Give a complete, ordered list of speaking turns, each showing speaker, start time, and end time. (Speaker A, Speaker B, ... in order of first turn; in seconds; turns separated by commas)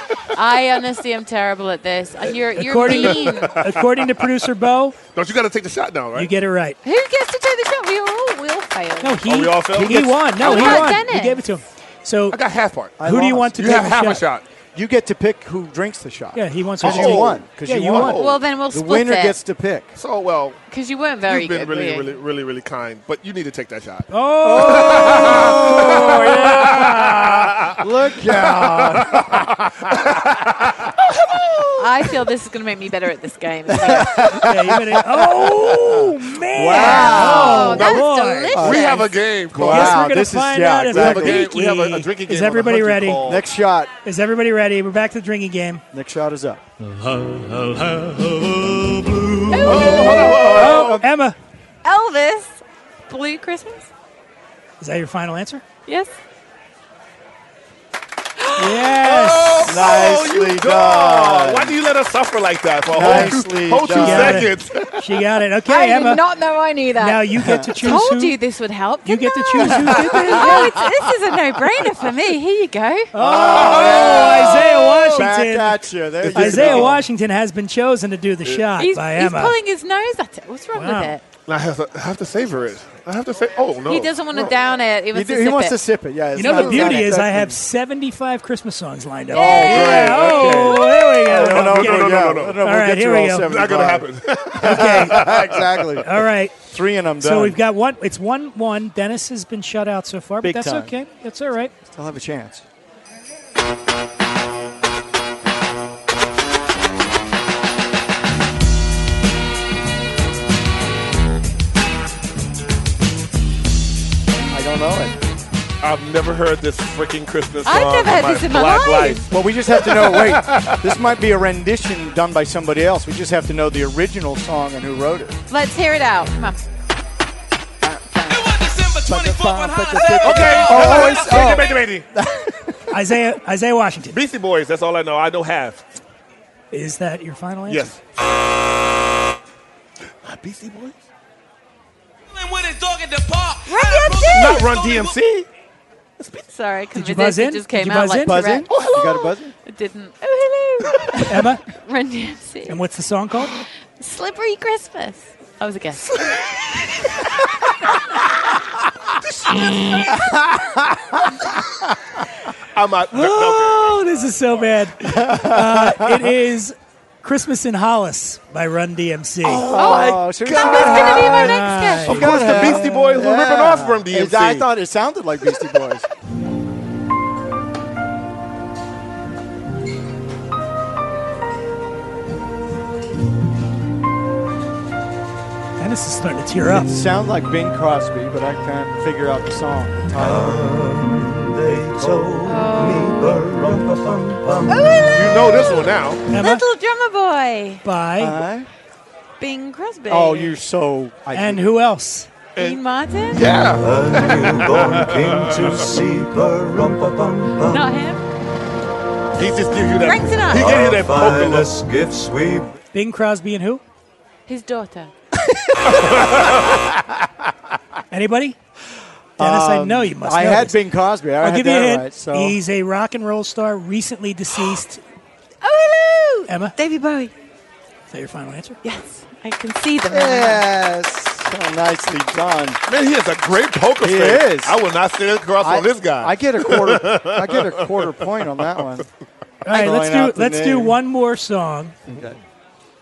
Speaker A: 0.3-3.5, Speaker B: 2.6-5.0, Speaker C: 2.8-4.0, Speaker C: 5.1-6.3, Speaker B: 6.2-6.8, Speaker A: 6.8-9.2, Speaker B: 9.0-12.4, Speaker C: 9.2-10.9, Speaker D: 9.8-10.2, Speaker A: 10.4-11.4, Speaker C: 12.3-13.0, Speaker D: 13.0-13.6, Speaker B: 13.0-14.2, Speaker C: 13.6-14.4, Speaker D: 14.7-19.9, Speaker B: 16.4-18.2, Speaker C: 16.8-18.4, Speaker A: 18.2-19.4, Speaker C: 20.0-20.6, Speaker A: 20.7-22.2, Speaker C: 21.3-27.8, Speaker B: 24.1-27.2, Speaker D: 24.4-30.2, Speaker C: 28.4-31.7, Speaker A: 31.8-34.4, Speaker D: 33.7-37.8, Speaker B: 34.2-38.6, Speaker A: 36.7-39.1, Speaker C: 37.1-40.0, Speaker D: 38.5-41.5, Speaker B: 39.6-43.3, Speaker C: 40.9-43.4, Speaker D: 43.2-43.9, Speaker B: 44.0-45.8, Speaker D: 45.9-46.6, Speaker A: 49.4-50.6, Speaker D: 49.5-51.1, Speaker C: 49.6-51.0, Speaker B: 50.5-51.4, Speaker A: 51.8-53.9, Speaker B: 54.8-55.6, Speaker A: 55.9-56.1, Speaker A: 58.4-58.9, Speaker B: 58.6-59.8, Speaker C: 59.0-64.9, Speaker D: 59.6-61.8, Speaker D: 62.9-64.6, Speaker B: 63.0-66.2, Speaker A: 65.7-67.2, Speaker B: 67.0-68.4, Speaker D: 67.4-67.7, Speaker A: 67.8-73.1, Speaker B: 69.0-70.7, Speaker D: 69.7-71.2, Speaker B: 73.1-79.5, Speaker D: 73.2-77.0, Speaker C: 73.5-74.9, Speaker C: 76.2-77.0, Speaker A: 78.8-81.2, Speaker B: 80.8-81.1, Speaker C: 81.5-84.1, Speaker A: 83.9-85.8, Speaker D: 85.1-87.6, Speaker B: 86.3-93.5, Speaker A: 86.4-87.1, Speaker A: 89.3-91.3, Speaker D: 89.3-97.6, Speaker C: 89.7-90.7, Speaker C: 91.3-92.6, Speaker C: 93.4-95.9, Speaker B: 94.6-95.3, Speaker B: 96.0-96.6, Speaker B: 97.2-101.7, Speaker D: 100.4-100.9, Speaker D: 101.8-102.7, Speaker D: 114.5-115.2, Speaker C: 115.8-119.3, Speaker A: 117.7-119.2, Speaker D: 119.3-125.4, Speaker C: 119.8-120.8, Speaker A: 125.5-126.6, Speaker D: 127.8-132.8, Speaker A: 128.1-128.6, Speaker C: 130.1-132.1, Speaker B: 132.9-134.2, Speaker C: 134.1-135.8, Speaker B: 136.7-137.9, Speaker C: 137.7-138.0, Speaker C: 140.2-140.9, Speaker A: 143.6-145.0, Speaker C: 144.2-145.5, Speaker C: 146.2-146.5, Speaker A: 146.5-152.8, Speaker B: 146.9-148.5, Speaker D: 148.2-149.5, Speaker C: 148.7-149.0, Speaker B: 151.3-151.6, Speaker B: 152.7-153.6, Speaker A: 153.5-156.4, Speaker A: 157.1-157.4, Speaker C: 159.5-160.2, Speaker C: 162.7-163.9, Speaker B: 163.1-169.7, Speaker D: 165.0-166.3, Speaker D: 169.4-176.1, Speaker C: 169.6-171.4, Speaker A: 169.7-172.4, Speaker B: 171.3-172.8, Speaker C: 172.1-174.7, Speaker B: 185.8-186.9, Speaker D: 186.7-191.1, Speaker D: 191.7-192.3, Speaker A: 192.4-193.4, Speaker A: 194.7-197.8, Speaker C: 195.1-196.2, Speaker B: 196.3-196.6, Speaker B: 197.8-198.4, Speaker D: 198.2-198.7, Speaker A: 199.4-200.6, Speaker D: 200.1-201.7, Speaker B: 201.3-202.3, Speaker A: 202.6-203.7, Speaker C: 203.3-206.1, Speaker A: 207.5-208.2, Speaker C: 209.3-211.9, Speaker A: 210.0-211.0, Speaker B: 212.9-213.8, Speaker A: 214.5-215.1, Speaker C: 215.8-216.9, Speaker B: 218.1-218.6, Speaker D: 219.4-222.6, Speaker B: 219.4-220.8, Speaker B: 221.4-225.0, Speaker A: 225.6-227.3, Speaker B: 226.5-226.7, Speaker B: 228.1-228.8, Speaker A: 228.8-230.7, Speaker D: 230.1-232.8, Speaker C: 232.9-238.8, Speaker D: 234.0-234.8, Speaker D: 235.6-239.1, Speaker D: 239.7-241.0, Speaker B: 239.7-242.0, Speaker D: 242.1-242.4